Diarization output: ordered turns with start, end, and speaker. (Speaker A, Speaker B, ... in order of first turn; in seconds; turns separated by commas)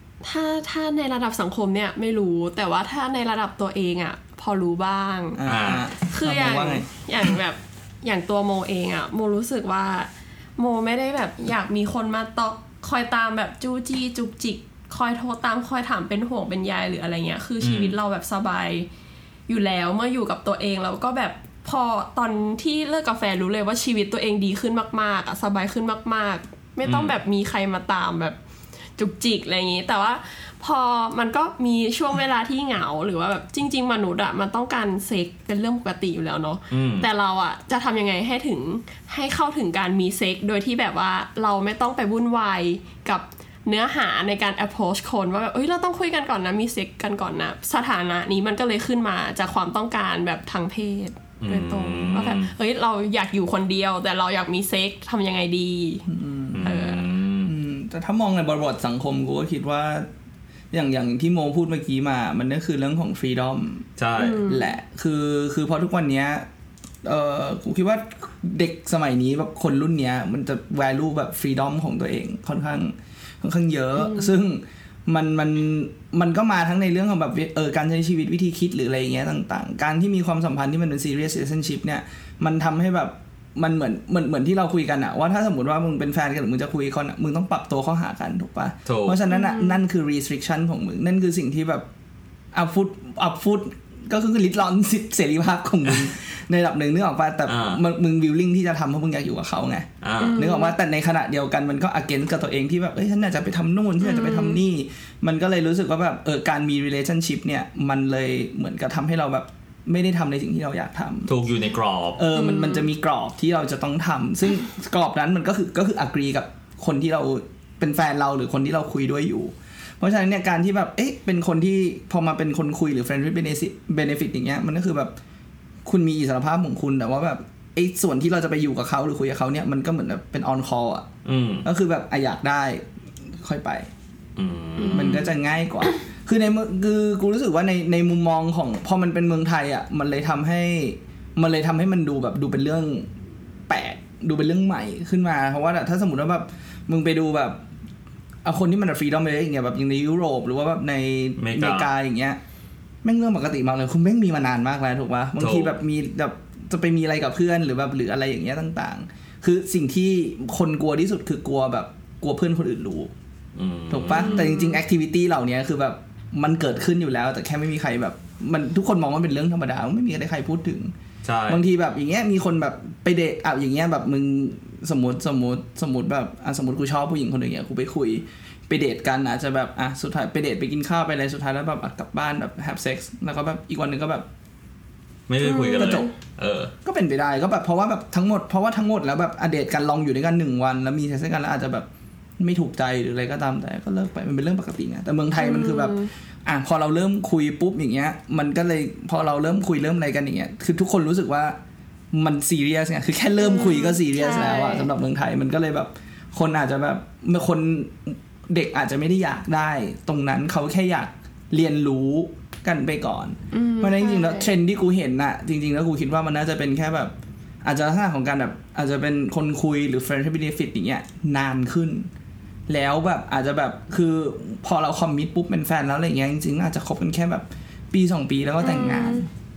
Speaker A: 0.2-5.4, Speaker B: 5.3-6.9, Speaker C: 5.5-5.8, Speaker A: 6.0-18.9, Speaker C: 17.6-17.9, Speaker A: 19.5-28.4, Speaker C: 26.8-27.1, Speaker A: 29.0-56.1, Speaker C: 36.7-37.1, Speaker C: 51.4-52.5, Speaker B: 56.1-56.8, Speaker C: 56.5-57.5, Speaker A: 56.6-57.0, Speaker B: 57.4-60.1, Speaker B: 60.7-66.5, Speaker C: 64.0-64.5, Speaker A: 64.2-64.7, Speaker B: 67.0-91.9, Speaker A: 74.0-74.3, Speaker C: 88.8-89.2, Speaker A: 89.3-89.8, Speaker B: 92.5-111.3, Speaker C: 97.5-97.8, Speaker C: 100.0-100.4, Speaker A: 100.2-100.7, Speaker A: 104.0-104.6, Speaker C: 111.3-112.2, Speaker B: 112.2-125.1, Speaker A: 112.3-112.9, Speaker B: 125.8-131.1, Speaker C: 131.2-131.7, Speaker B: 131.6-132.8, Speaker B: 133.4-133.9, Speaker C: 134.3-135.2, Speaker A: 134.8-135.3, Speaker B: 134.9-143.1, Speaker B: 143.7-147.6, Speaker B: 148.4-152.4, Speaker C: 151.4-151.9, Speaker B: 153.0-163.1, Speaker C: 155.4-155.7, Speaker C: 163.5-164.5, Speaker B: 163.9-170.9, Speaker A: 164.1-164.8, Speaker C: 171.2-171.6, Speaker B: 171.5-184.2, Speaker C: 185.3-186.7, Speaker A: 185.4-186.1, Speaker B: 185.8-186.1, Speaker B: 186.8-191.9, Speaker B: 192.4-201.6, Speaker A: 195.4-196.1, Speaker B: 202.1-222.1, Speaker A: 203.4-204.9, Speaker A: 213.5-214.5, Speaker B: 222.7-229.3, Speaker A: 228.6-229.2